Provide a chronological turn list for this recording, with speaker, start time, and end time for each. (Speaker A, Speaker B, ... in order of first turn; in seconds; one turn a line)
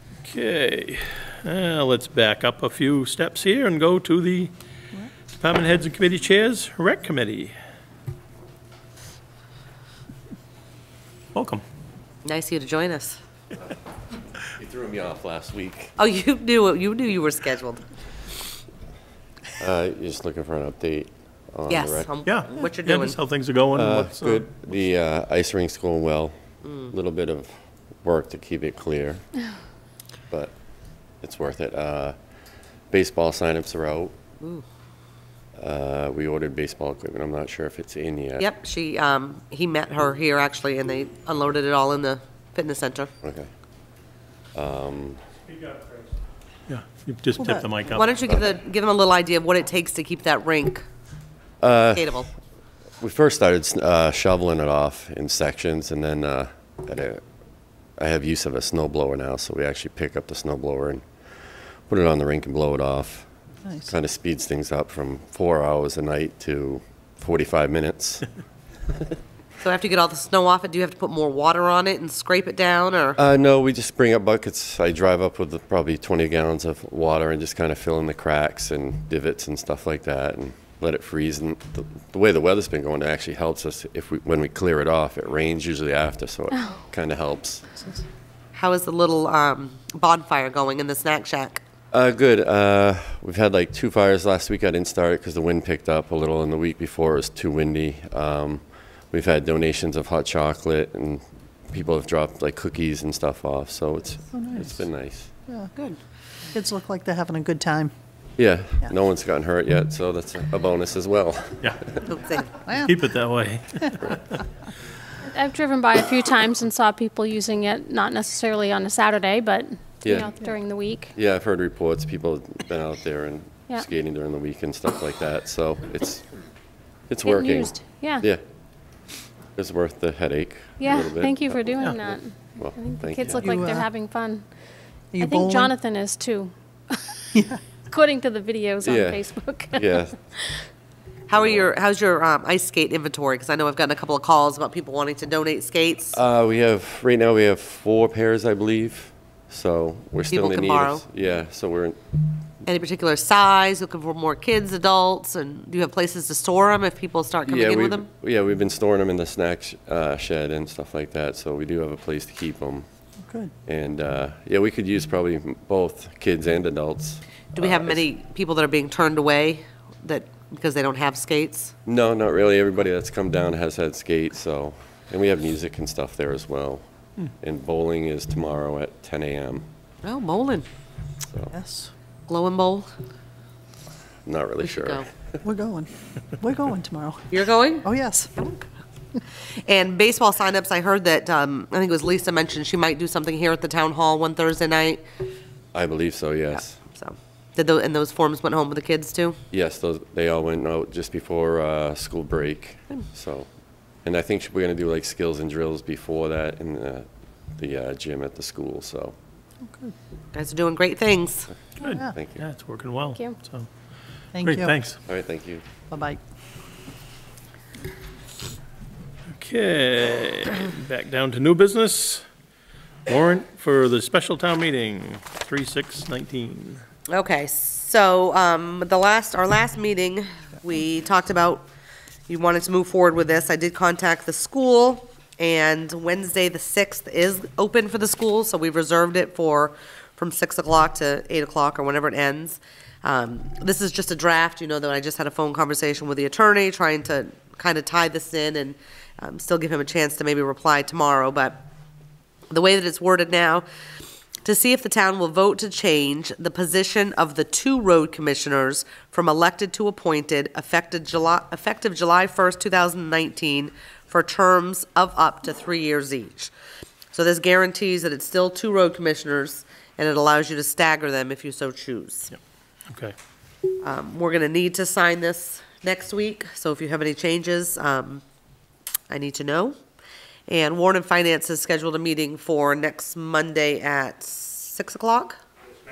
Speaker A: 0.2-4.5
Speaker A: 5.4-7.5
Speaker A: 11.3-11.6
Speaker B: 12.2-13.2
Speaker C: 14.5-15.9
Speaker B: 16.0-17.8
Speaker C: 19.6-22.1
Speaker B: 21.7-23.2
Speaker A: 22.2-24.5
Speaker C: 23.7-26.3
Speaker B: 26.6-26.9
Speaker C: 26.9-27.5
Speaker C: 28.0-29.2
Speaker C: 31.2-32.1
Speaker C: 32.9-34.1
Speaker B: 34.4-34.6
Speaker C: 35.6-38.5
Speaker B: 38.4-43.1
Speaker C: 43.2-43.5
Speaker C: 44.5-45.2
Speaker A: 46.7-48.1
Speaker D: 47.4-47.6
Speaker B: 47.9-50.8
Speaker C: 51.6-52.1
Speaker B: 51.9-52.3
Speaker C: 53.0-57.2
Speaker C: 58.0-61.0
Speaker C: 61.9-63.3
Speaker D: 63.6-63.9
Speaker C: 63.9-68.3
Speaker B: 69.6-73.2
Speaker C: 73.2-87.6
Speaker B: 88.5-91.6
Speaker C: 91.9-105.3
Speaker D: 104.3-104.8
Speaker D: 106.5-107.9
Speaker C: 108.4-112.1
Speaker B: 112.1-112.5
Speaker D: 112.7-113.0
Speaker A: 112.8-114.4
Speaker E: 115.3-121.1
Speaker C: 120.0-120.3
Speaker C: 121.1-126.2
Speaker C: 127.1-128.4
Speaker E: 127.2-128.3
Speaker C: 129.6-133.5
Speaker E: 130.8-134.4
Speaker D: 133.4-133.9
Speaker D: 135.1-135.7
Speaker E: 135.2-140.6
Speaker D: 137.3-137.6
Speaker C: 138.8-140.1
Speaker B: 141.3-146.2
Speaker C: 141.3-141.7
Speaker C: 146.1-152.0
Speaker B: 150.3-151.0
Speaker B: 152.6-158.1
Speaker C: 157.4-162.8
Speaker D: 163.3-163.5
Speaker C: 163.7-168.0
Speaker B: 167.5-171.7
Speaker C: 171.8-176.8
Speaker C: 177.4-179.7
Speaker B: 180.0-180.7
Speaker D: 181.5-181.9
Speaker B: 182.3-182.9
Speaker C: 184.2-185.1
Speaker B: 184.6-185.1
Speaker D: 185.4-187.2
Speaker B: 187.3-188.7
Speaker D: 187.8-188.3
Speaker B: 189.5-195.0
Speaker C: 195.7-196.8
Speaker B: 196.5-199.4
Speaker C: 199.5-203.5
Speaker C: 204.0-209.1
Speaker D: 209.6-209.9
Speaker B: 210.3-211.5
Speaker D: 211.8-212.1
Speaker A: 211.8-213.7
Speaker C: 212.1-212.4
Speaker D: 214.3-214.7
Speaker A: 214.4-215.0
Speaker C: 215.1-215.6
Speaker D: 215.9-216.2
Speaker A: 219.3-222.2
Speaker A: 223.1-226.8
Speaker B: 227.1-231.7
Speaker B: 232.3-251.6
Speaker B: 252.5-253.6
Speaker B: 254.4-266.5
Speaker B: 267.1-272.3
Speaker B: 273.8-278.2
Speaker B: 279.1-279.8
Speaker B: 280.5-285.4